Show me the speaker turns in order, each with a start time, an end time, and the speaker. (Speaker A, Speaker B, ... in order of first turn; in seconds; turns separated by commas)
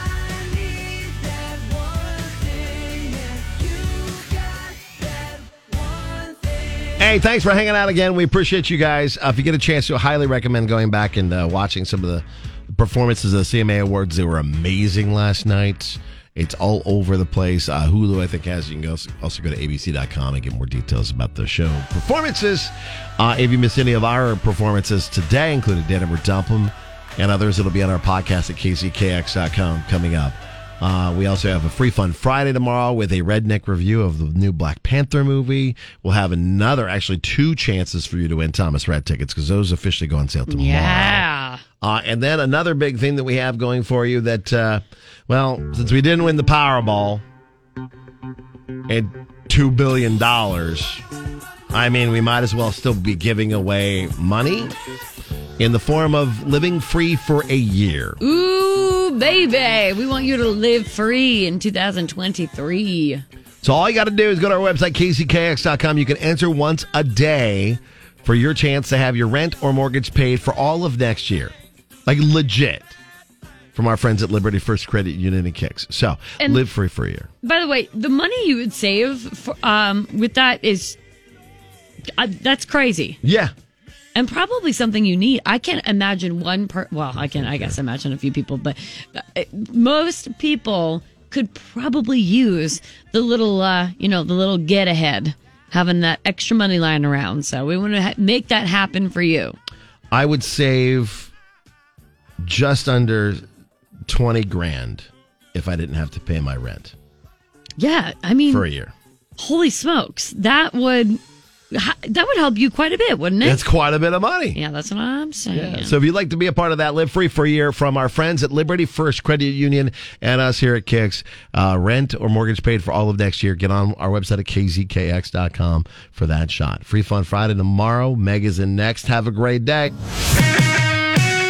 Speaker A: 7.0-41.2, Speaker B: 40.5-41.6, Speaker A: 41.8-47.2, Speaker A: 48.9-51.0, Speaker A: 51.7-54.7, Speaker A: 55.6-58.2, Speaker B: 58.2-63.2, Speaker A: 63.6-71.5, Speaker A: 72.0-72.9, Speaker A: 73.7-77.3, Speaker B: 77.4-81.0, Speaker B: 82.2-83.2, Speaker A: 83.2-83.5, Speaker B: 84.1-99.5, Speaker A: 87.3-87.8, Speaker A: 100.1-101.3, Speaker A: 102.4-103.4, Speaker A: 104.1-106.9, Speaker B: 107.8-108.6, Speaker A: 108.5-108.9, Speaker B: 109.4-111.2, Speaker B: 111.7-113.6, Speaker A: 113.4-114.6, Speaker B: 114.5-115.9, Speaker A: 115.5-129.9